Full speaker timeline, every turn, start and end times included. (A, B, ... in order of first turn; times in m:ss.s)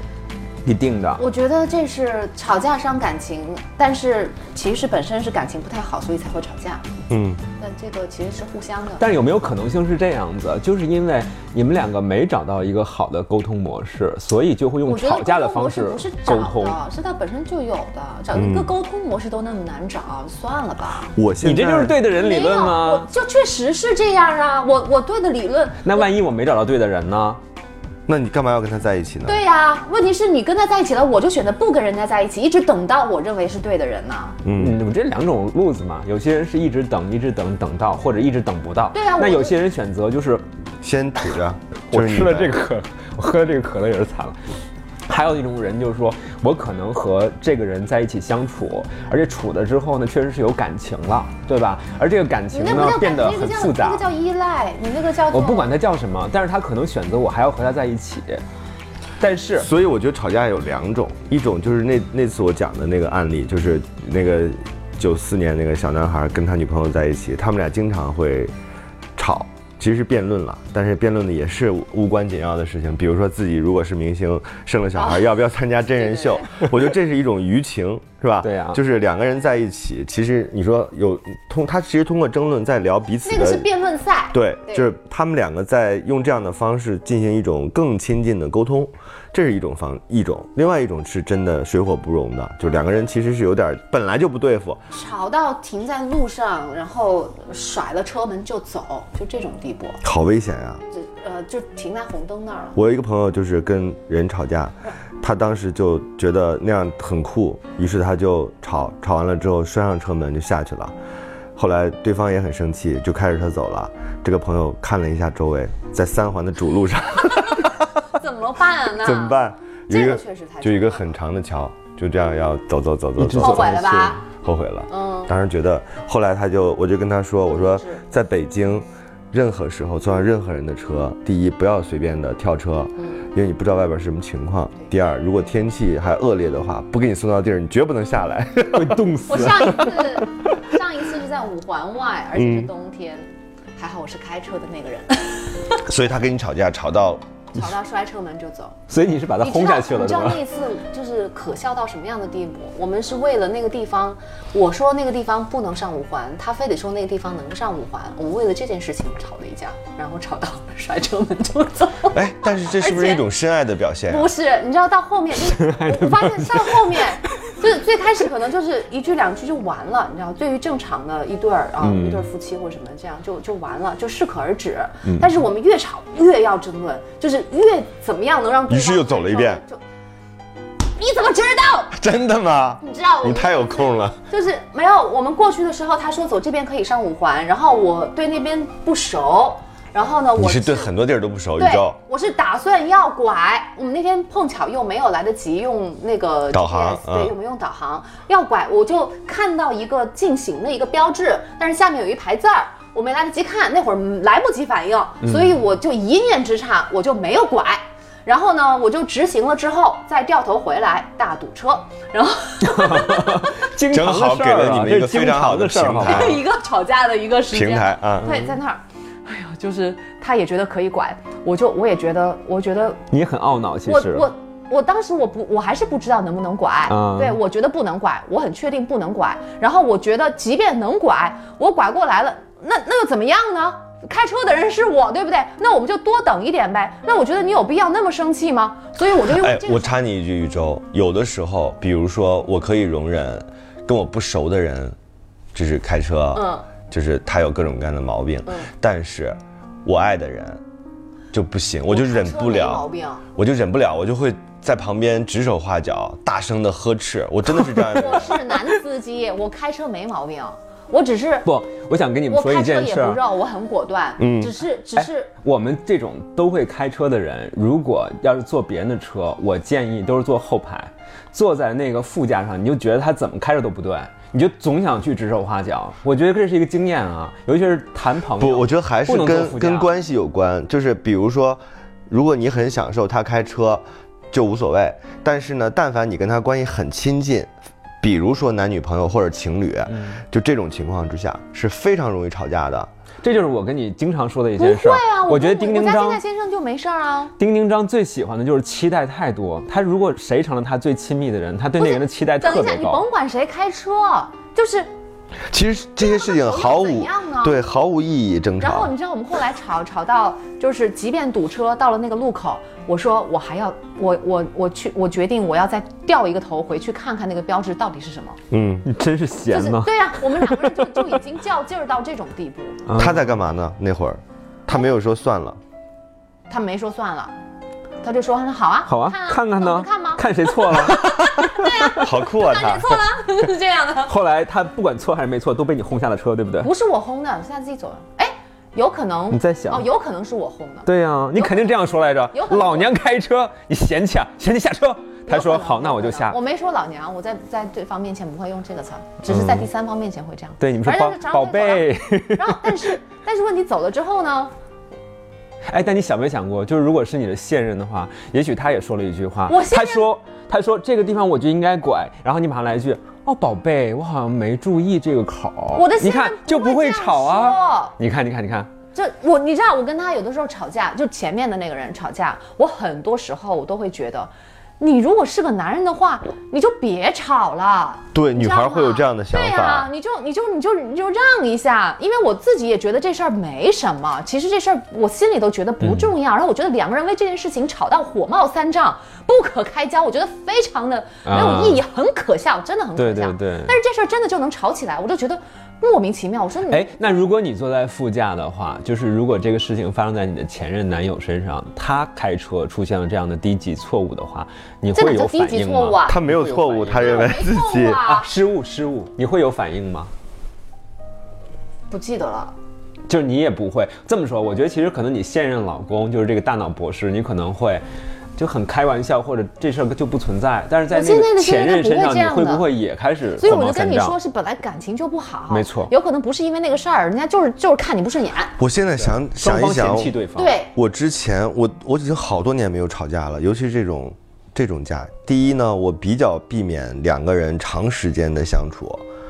0:00.6-0:01.2 A
0:01.2-0:06.8 B
0:07.1-0:07.4 C
0:07.6-0:09.1 B
0:09.0-0:16.8 A
0:14.9-0:21.1 B
0:18.3-0:18.7 C
0:21.2-0:22.0 C
0:21.4-0:23.1 A
0:22.1-0:26.1 B
0:25.8-0:27.4 A
0:28.1-0:29.4 C
0:29.3-0:34.4 B
0:34.4-0:34.8 C
0:34.6-0:40.4 A
0:38.9-0:39.6 B
0:40.8-0:42.5 C
0:41.9-0:44.4 A
0:45.1-0:54.0 A
0:52.5-0:55.7 B
0:55.3-0:58.4 A
0:59.2-0:59.7 A
0:59.6-1:08.5 C
1:09.2-1:23.7 C
1:14.9-1:15.3 B
1:15.9-1:16.6 B
1:18.4-1:18.8 A
1:23.2-1:24.9 B
1:24.3-1:34.8 C
1:34.9-1:40.0 B
1:40.0-1:40.8 C
1:40.9-1:42.8 B
1:42.7-1:50.9 C
1:51.6-1:57.9 C
1:58.1-2:01.1 B
1:59.0-2:03.8 C
2:03.2-2:04.2 A
2:03.4-2:04.2 B
2:04.4-2:19.0 C
2:04.9-2:05.3 B
2:07.5-2:08.0 B
2:18.7-2:20.2 A
2:19.3-2:25.8 B
2:22.3-2:22.7 C
2:25.8-2:27.2 C
2:27.5-2:28.7 B
2:28.9-2:30.4 A
2:29.4-2:43.2 B
2:42.1-2:44.3 C
2:44.1-2:59.8 B
2:45.4-2:47.1 A
2:51.8-2:52.3 A
2:55.0-2:55.3 A
2:58.7-2:59.6 C
3:00.9-3:01.9 B
3:01.9-3:04.2 C
3:02.8-3:10.9 B
3:10.4-3:12.0 C
3:11.6-3:33.5 B
3:16.5-3:17.3 C
3:25.2-3:25.6 A
3:32.6-3:36.4 A
3:33.9-3:36.4 C
3:36.0-3:43.0 B
3:37.5-3:38.3 C
3:43.1-3:44.3 A
3:43.8-3:59.9 B
3:46.9-3:47.4 A
3:59.3-4:05.0 C
4:05.5-4:10.6 C
4:06.3-4:06.6 B
4:11.3-4:12.8 C
4:11.9-4:13.2 B
4:13.3-4:18.4 C
4:17.8-4:21.5 B
4:21.4-4:23.2 A
4:22.3-4:25.3 B
4:24.2-4:24.5 C
4:25.0-4:39.9 A
4:38.4-4:47.5 C
4:48.0-4:52.9 C
4:49.9-4:50.2 A
4:53.2-4:56.2 A
4:54.6-4:57.3 B
4:57.4-5:03.0 A
5:01.8-5:04.9 B
5:05.5-5:08.9 C
5:06.0-5:07.6 B
5:08.6-5:18.4 B
5:18.5-5:18.8 C
5:18.8-5:21.0 A
5:19.5-5:22.9 B
5:22.9-5:23.2 A
5:23.0-5:25.6 C
5:26.5-5:27.3 B
5:28.0-5:34.1 B
5:28.9-5:32.0 A
5:32.0-5:33.0 C
5:34.1-5:36.7 A
5:36.6-5:41.7 B
5:39.3-5:39.9 A
5:40.8-5:46.4 A
5:42.3-5:42.9 B
5:45.3-5:54.5 B
5:49.2-5:49.7 A
5:50.6-5:52.9 A
5:55.6-6:08.7 A
5:59.5-6:00.0 B
6:05.7-6:07.9 B
6:08.9-6:36.9 B
6:18.1-6:19.9 C
6:25.8-6:26.1 A
6:31.2-6:31.8 A
6:33.0-6:33.7 A
6:36.7-6:47.3 A
6:44.9-6:46.2 B
6:46.1-6:48.0 C
6:47.0-6:48.3 B
6:48.0-6:50.1 A
6:51.9-6:52.5 B
6:53.1-6:57.8 A
6:58.4-7:04.2 A
7:00.9-7:02.6 B
7:03.4-7:08.5 B
7:05.5-7:05.9 A
7:08.6-7:10.2 C
7:09.0-7:10.6 A
7:10.4-7:10.7 B
7:10.7-7:19.0 C